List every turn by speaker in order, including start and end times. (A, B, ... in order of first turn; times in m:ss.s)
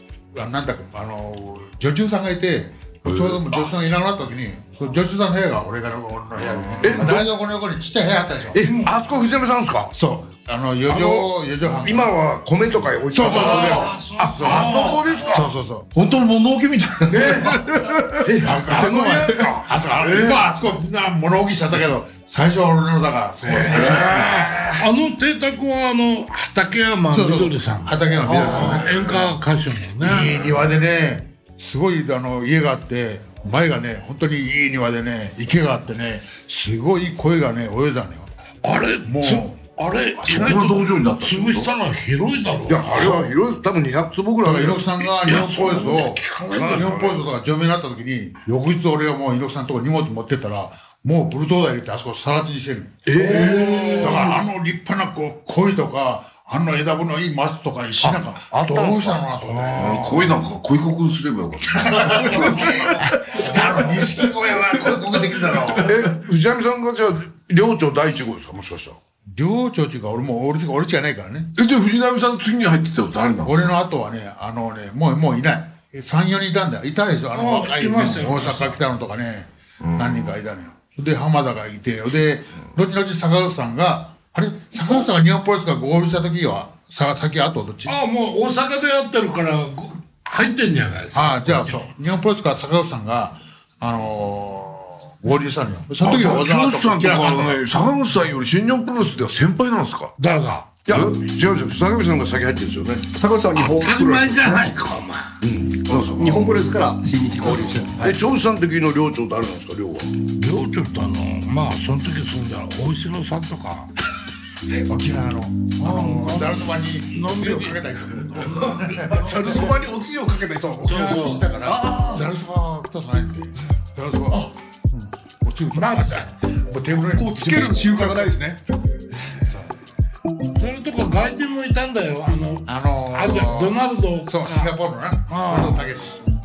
0:00.4-0:08.6 A
0:03.1-0:03.6 B
0:06.8-0:07.3 C
0:06.8-0:07.2 B
0:08.5-0:10.0 C
0:08.6-0:08.9 D
0:09.9-0:12.1 A
0:10.9-0:15.5 C
0:13.1-0:15.9 A
0:13.3-0:15.4 D
0:15.9-0:20.4 B
0:17.2-0:19.6 C
0:18.3-0:24.3 A
0:23.4-0:24.8 B
0:23.7-0:30.4 D
0:27.1-0:29.3 A
0:28.3-0:29.1 B
0:30.0-0:38.3 A
0:38.6-0:43.3 D
0:39.1-0:39.6 A
0:40.2-0:41.7 B
0:42.7-0:44.9 C
0:44.4-1:00.4 A
0:45.2-0:47.0 D
0:46.5-0:47.3 C
0:53.1-0:54.4 C
0:53.1-0:54.3 B
0:58.0-0:59.2 C
0:59.5-1:00.3 D
0:59.7-1:03.5 B
1:01.7-1:06.0 A
1:02.0-1:03.0 C
1:05.6-1:06.0 B
1:05.8-1:09.0 C
1:09.3-1:11.5 A
1:11.6-1:13.8 B
1:13.4-1:28.0 A
1:17.3-1:18.8 D
1:19.8-1:20.4 B
1:27.9-1:31.9 D
1:31.1-1:37.9 A
1:36.0-1:40.2 B
1:40.2-1:40.7 D
1:40.9-1:43.1 C
1:40.9-1:41.2 B
1:43.1-1:44.7 E
1:43.6-1:45.4 D
1:45.4-1:46.5 C
1:45.9-1:46.2 B
1:46.0-1:48.2 E
1:48.0-1:50.1 C
1:50.4-1:53.9 D
1:54.9-1:59.6 A
1:55.8-1:59.8 D
1:58.7-2:02.3 E
2:00.8-2:08.6 A
2:00.8-2:01.5 D
2:05.7-2:06.3 D
2:07.1-2:08.6 E
2:09.2-2:09.7 A
2:10.6-2:14.7 D
2:12.7-2:16.2 A
2:15.3-2:15.8 D